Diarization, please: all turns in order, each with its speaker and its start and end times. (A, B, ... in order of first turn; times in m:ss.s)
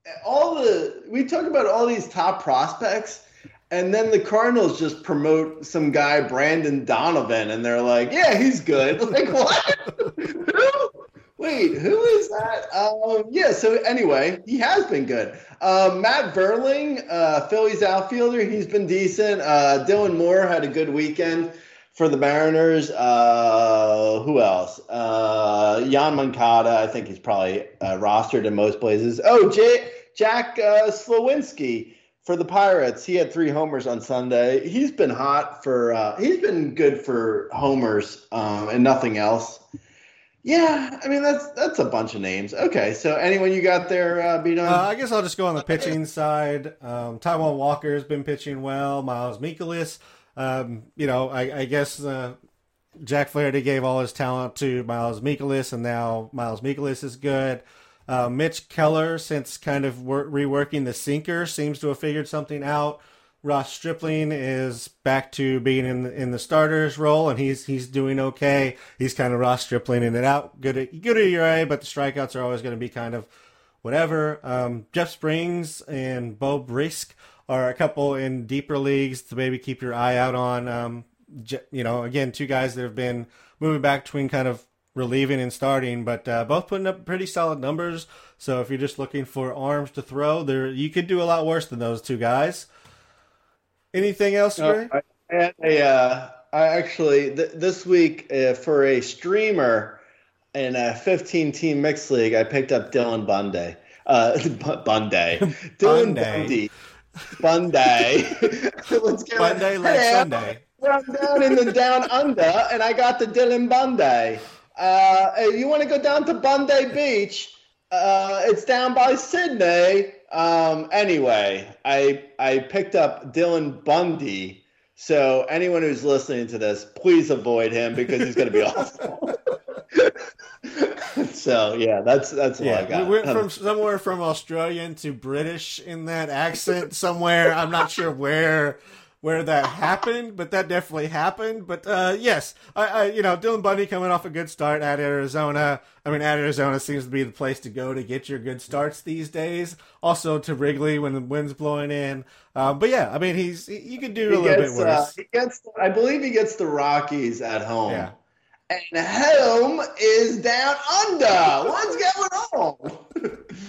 0:00.2-0:39.6 A
0:40.4-0:44.8 A
0:44.6-0:52.4 B
0:53.0-1:13.3 B
1:13.8-1:32.7 B
1:33.9-1:34.9 B
1:34.6-1:40.0 A
1:40.5-1:46.7 A
1:45.4-1:46.7 B
1:47.4-2:09.4 A
1:49.4-1:50.6 B
1:51.2-1:51.7 B
2:09.9-2:13.5 A
2:12.6-2:35.1 B
2:34.3-2:38.1 A
2:37.9-2:38.1 B
2:38.7-2:43.4 A